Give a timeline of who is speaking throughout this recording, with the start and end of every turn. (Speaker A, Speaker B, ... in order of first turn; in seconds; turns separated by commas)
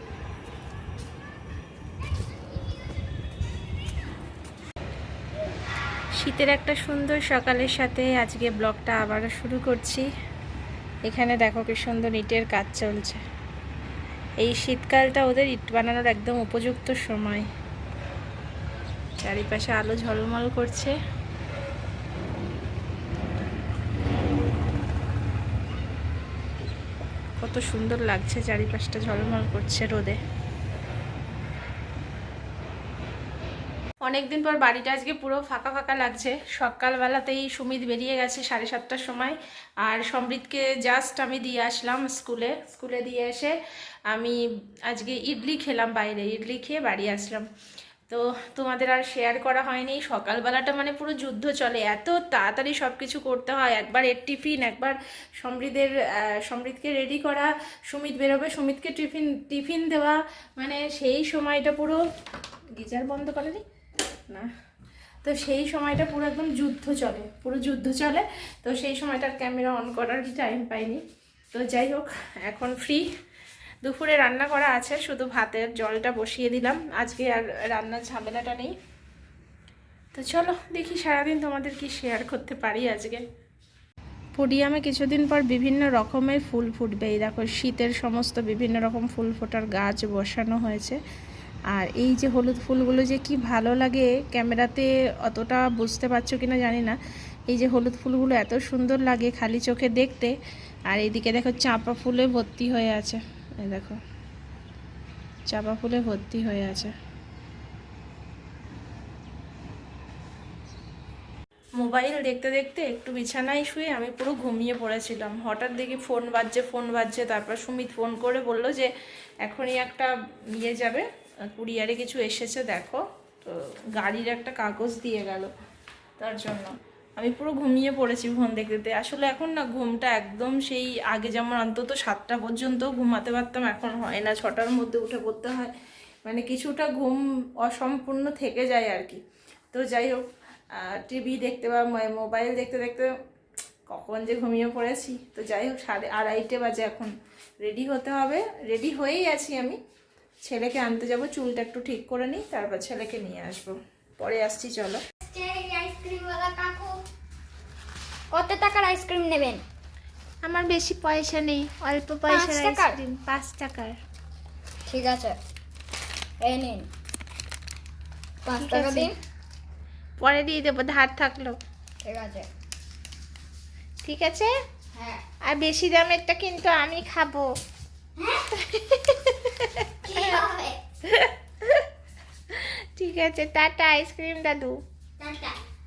Speaker A: 6.2-10.1, Speaker A: 11.1-13.2, Speaker A: 14.4-17.4, Speaker A: 19.2-21.0, Speaker A: 27.4-30.2, Speaker A: 34.0-43.5, Speaker A: 44.1-47.5, Speaker A: 48.1-62.0, Speaker A: 62.7-63.6, Speaker A: 65.2-73.1, Speaker A: 73.8-78.7, Speaker A: 80.2-83.2, Speaker A: 84.4-91.0, Speaker A: 91.7-97.0, Speaker A: 97.5-100.3, Speaker A: 100.9-104.0, Speaker A: 105.5-106.9, Speaker A: 111.8-118.9, Speaker A: 119.4-125.5, Speaker A: 126.2-135.7, Speaker A: 136.2-139.2, Speaker A: 139.7-143.1, Speaker A: 143.9-149.8, Speaker A: 150.4-155.0, Speaker B: 155.2-156.9, Speaker B: 158.3-159.6, Speaker A: 160.4-164.0, Speaker B: 162.3-163.0, Speaker B: 164.9-165.4, Speaker B: 166.4-166.9, Speaker B: 168.4-169.1, Speaker A: 168.6-169.1, Speaker A: 170.2-171.6, Speaker B: 172.0-172.5, Speaker A: 174.0-174.5, Speaker B: 174.9-175.2, Speaker A: 175.5-177.5, Speaker B: 178.2-178.6, Speaker A: 178.6-180.4, Speaker B: 180.1-180.8, Speaker A: 181.1-181.9, Speaker A: 182.5-184.8, Speaker B: 185.2-185.6